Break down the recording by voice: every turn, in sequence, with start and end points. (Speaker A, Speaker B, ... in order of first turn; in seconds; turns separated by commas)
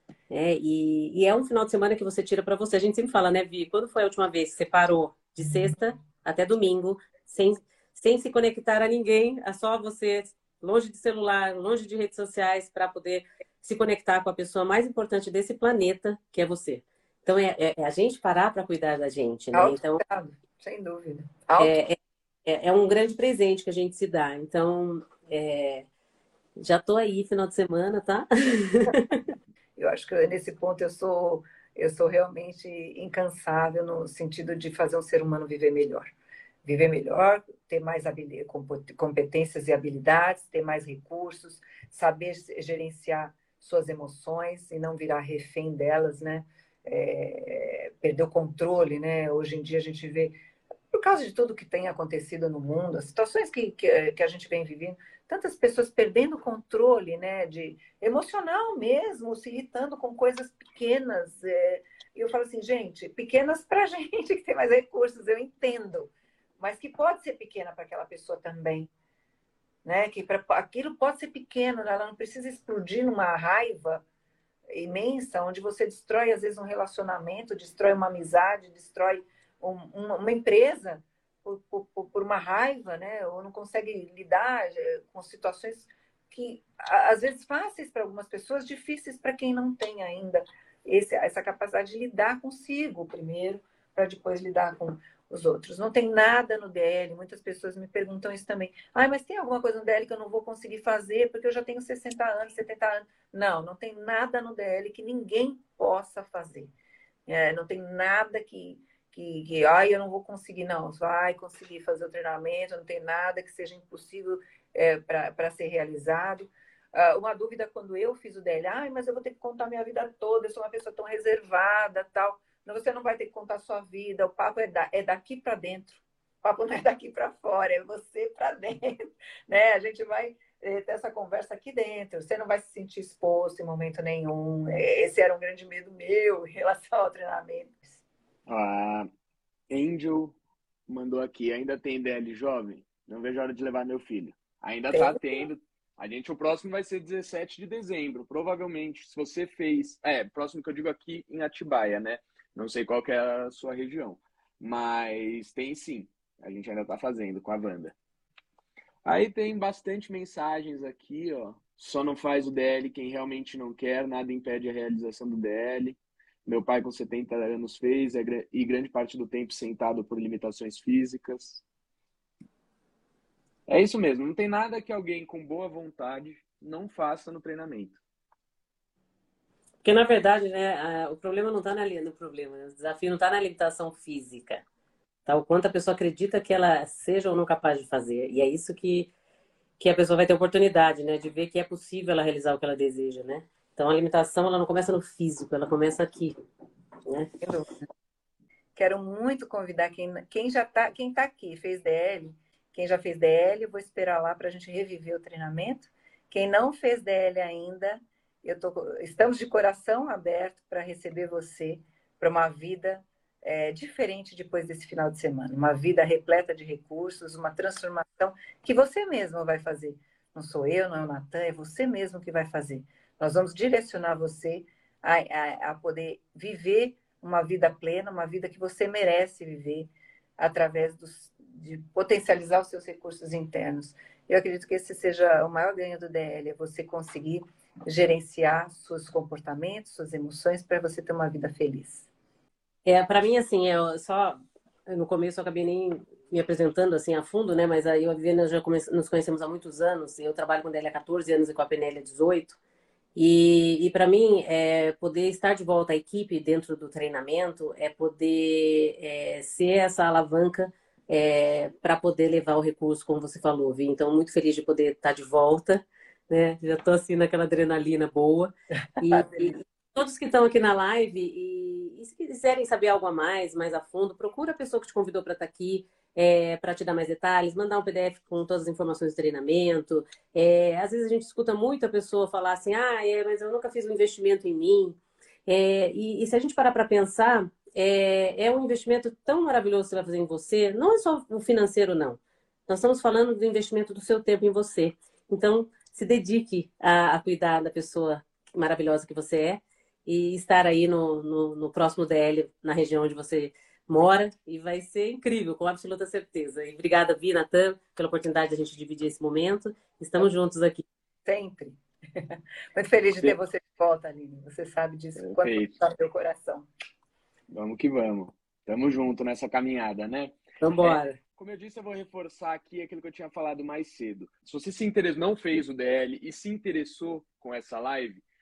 Speaker A: 0.3-20.0, Speaker B: 19.5-21.8, Speaker A: 21.6-25.9, Speaker A: 26.6-29.2, Speaker B: 29.8-50.4, Speaker B: 50.9-68.9, Speaker B: 69.8-74.0, Speaker B: 74.7-106.7, Speaker B: 107.3-138.0, Speaker C: 138.5-139.1, Speaker C: 139.7-140.4, Speaker C: 140.9-157.9, Speaker B: 144.9-145.5, Speaker C: 159.1-171.6, Speaker C: 173.7-178.0, Speaker A: 179.8-184.6, Speaker A: 185.3-189.1, Speaker A: 189.8-196.3, Speaker A: 197.1-197.3, Speaker B: 197.4-197.9, Speaker B: 198.8-242.1, Speaker A: 242.8-252.6, Speaker A: 253.2-310.9, Speaker B: 269.0-269.6, Speaker B: 311.2-316.7, Speaker C: 315.2-315.8, Speaker C: 317.5-328.2, Speaker A: 320.6-321.2